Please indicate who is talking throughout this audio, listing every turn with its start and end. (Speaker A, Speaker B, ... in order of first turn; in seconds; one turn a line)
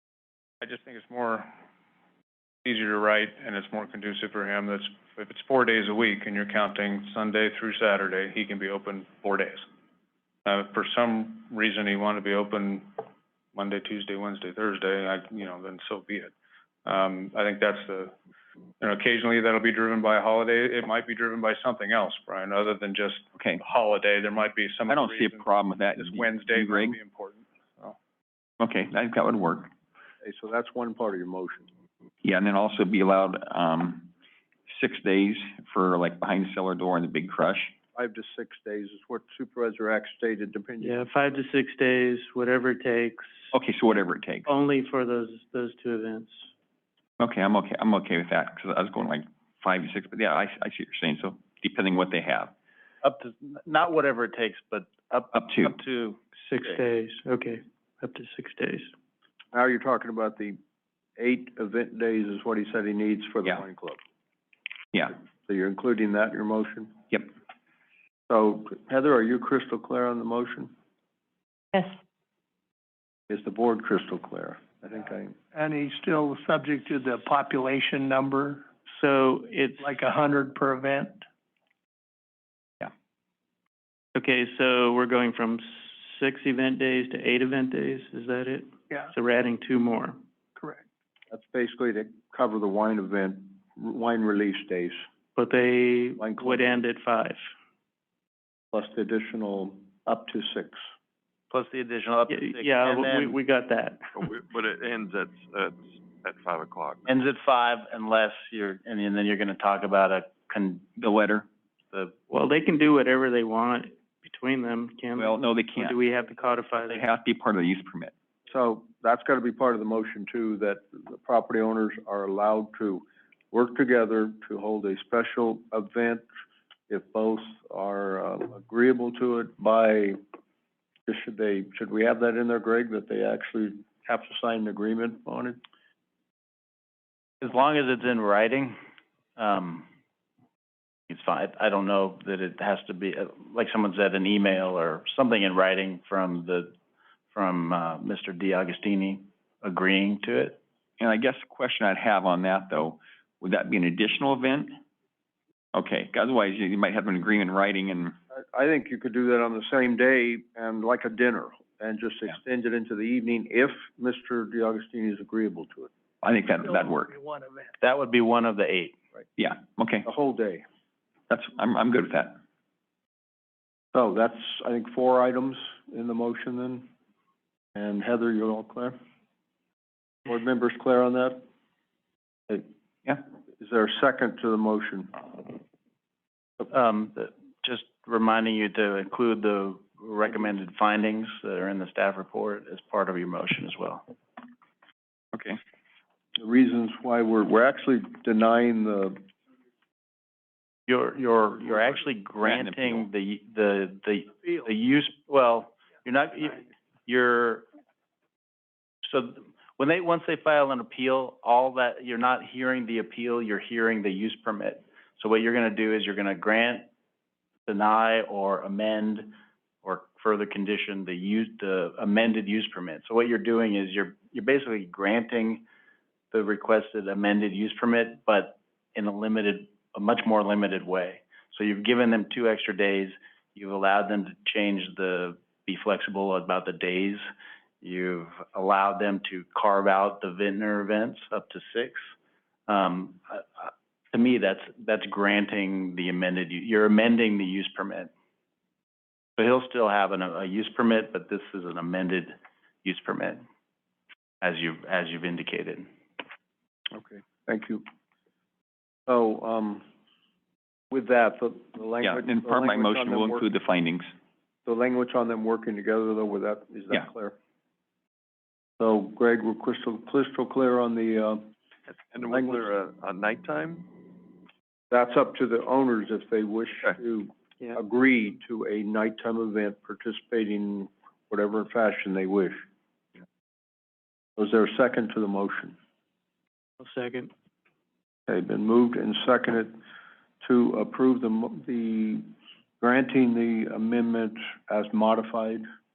Speaker A: 0.6-1.5
Speaker A: 2.6-9.7
Speaker A: 10.4-12.9
Speaker A: 13.5-16.3
Speaker A: 16.8-18.1
Speaker A: 18.8-27.9
Speaker B: 24.9-27.0
Speaker B: 28.6-29.7
Speaker C: 30.2-31.7
Speaker B: 32.2-34.1
Speaker B: 34.7-37.7
Speaker C: 37.9-41.1
Speaker D: 40.8-43.5
Speaker B: 43.5-44.5
Speaker D: 44.5-46.5
Speaker B: 47.2-52.5
Speaker E: 53.0-56.8
Speaker B: 55.3-55.7
Speaker D: 56.4-58.9
Speaker C: 59.5-60.6
Speaker C: 61.2-64.0
Speaker C: 65.5-66.9
Speaker C: 68.3-70.7
Speaker C: 73.3-75.3
Speaker F: 75.5-78.6
Speaker D: 79.0-79.9
Speaker F: 79.8-81.2
Speaker D: 84.1-90.2
Speaker C: 91.3-95.0
Speaker D: 95.3-97.4
Speaker C: 96.2-96.8
Speaker C: 98.7-100.8
Speaker E: 101.5-103.4
Speaker D: 102.3-104.0
Speaker G: 104.1-107.1
Speaker E: 107.0-110.9
Speaker B: 111.0-111.5
Speaker E: 111.9-112.2
Speaker D: 112.3-117.0
Speaker B: 115.2-116.0
Speaker B: 116.8-118.1
Speaker C: 118.5-126.2
Speaker C: 126.9-130.2
Speaker C: 131.1-135.6
Speaker E: 137.4-138.7
Speaker E: 139.4-139.9
Speaker E: 141.1-146.8
Speaker E: 147.3-150.6
Speaker B: 151.0-154.8
Speaker B: 155.7-158.2
Speaker C: 158.3-165.9
Speaker B: 166.2-167.1
Speaker F: 166.8-167.7
Speaker E: 167.8-168.9
Speaker B: 169.4-170.1
Speaker C: 170.0-170.6
Speaker B: 171.3-172.4
Speaker C: 173.9-176.8
Speaker C: 177.7-178.9
Speaker C: 180.2-181.4
Speaker C: 183.6-185.2
Speaker E: 186.7-194.0
Speaker B: 195.3-195.6
Speaker C: 196.3-199.2
Speaker E: 200.9-207.7
Speaker B: 202.4-203.1
Speaker E: 209.0-216.9
Speaker E: 217.7-225.6
Speaker E: 226.3-237.2
Speaker E: 237.8-242.1
Speaker E: 242.7-248.1
Speaker E: 249.4-253.4
Speaker E: 254.4-255.9
Speaker C: 256.9-257.8
Speaker C: 259.1-259.8
Speaker C: 260.9-263.5
Speaker B: 262.0-264.1
Speaker C: 264.6-267.3
Speaker C: 268.8-271.4
Speaker G: 271.9-273.9
Speaker C: 272.3-272.7
Speaker C: 274.9-282.6
Speaker C: 284.4-285.7
Speaker D: 286.8-287.3
Speaker C: 288.3-289.7
Speaker C: 290.4-292.3
Speaker C: 292.8-295.6